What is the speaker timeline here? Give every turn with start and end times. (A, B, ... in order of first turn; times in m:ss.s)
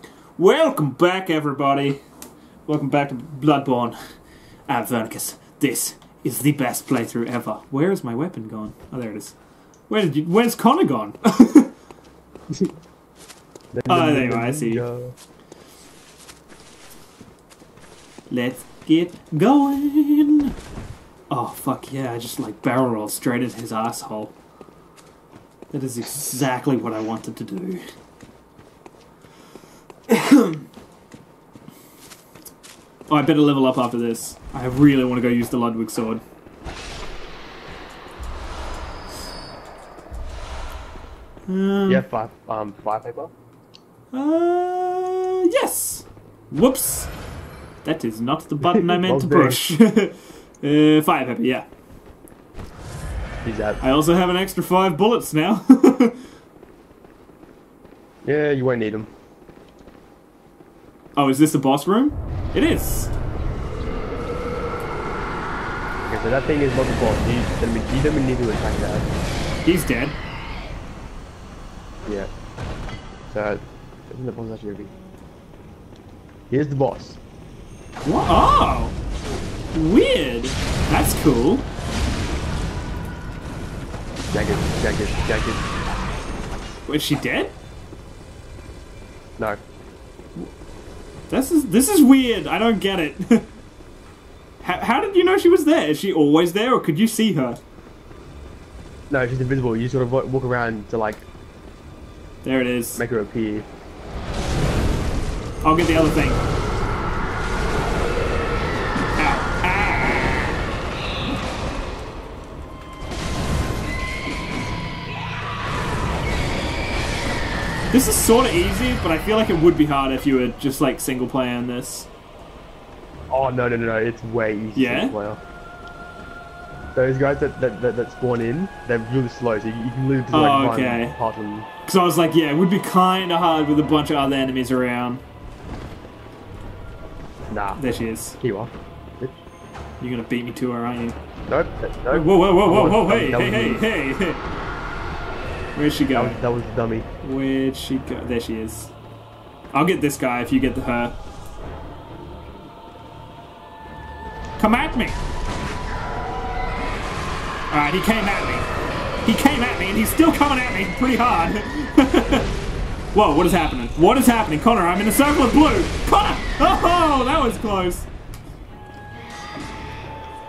0:00.4-0:02.0 A
0:02.6-0:04.0 A
0:04.7-0:09.3 A
0:09.9-0:11.7 A
0:13.7-0:15.1 B
0:13.9-0:14.8 A
0:18.3-0:20.5 A
0:21.3-0:24.3 A
0:25.7-0:27.8 A
0:30.1-0:30.7 A
0:33.1-0:36.2 A
0:41.5-0:42.1 A
0:41.9-0:43.3 B
0:44.1-0:47.1 A
0:47.8-0:51.7 A
0:48.6-0:49.6 B
0:53.4-0:53.8 B
0:53.8-0:56.2 A
0:58.2-0:59.1 B
1:01.2-1:03.1 A
1:06.1-1:09.1 B
1:09.6-1:10.2 A
1:12.0-1:12.3 B
1:13.3-1:14.9 B
1:16.5-1:17.2 B
1:18.0-1:18.9 A
1:19.7-1:21.7 A
1:24.3-1:25.6 B
1:26.9-1:27.5 A
1:31.3-1:33.5 A
1:34.6-1:37.6 A
1:39.1-1:41.2 B
1:42.4-1:43.0 A
1:43.0-1:43.7 B
1:45.6-1:46.4 A
1:49.2-1:50.6 A
1:57.9-2:02.1 A
2:03.3-2:05.4 B
2:04.8-2:05.1 A
2:06.9-2:11.7 B
2:10.3-2:11.2 A
2:11.8-2:15.2 A
2:17.5-2:17.8 B
2:17.8-2:18.4 A
2:18.4-2:19.4 B
2:20.0-2:21.2 A
2:21.5-2:23.8 B
2:22.1-2:24.4 A
2:25.8-2:26.4 A
2:26.1-2:27.1 B
2:27.2-2:28.9 A
2:29.7-2:31.1 A
2:34.6-2:35.2 A
2:37.7-2:38.7 A
2:39.2-2:42.5 A
2:43.1-2:48.1 A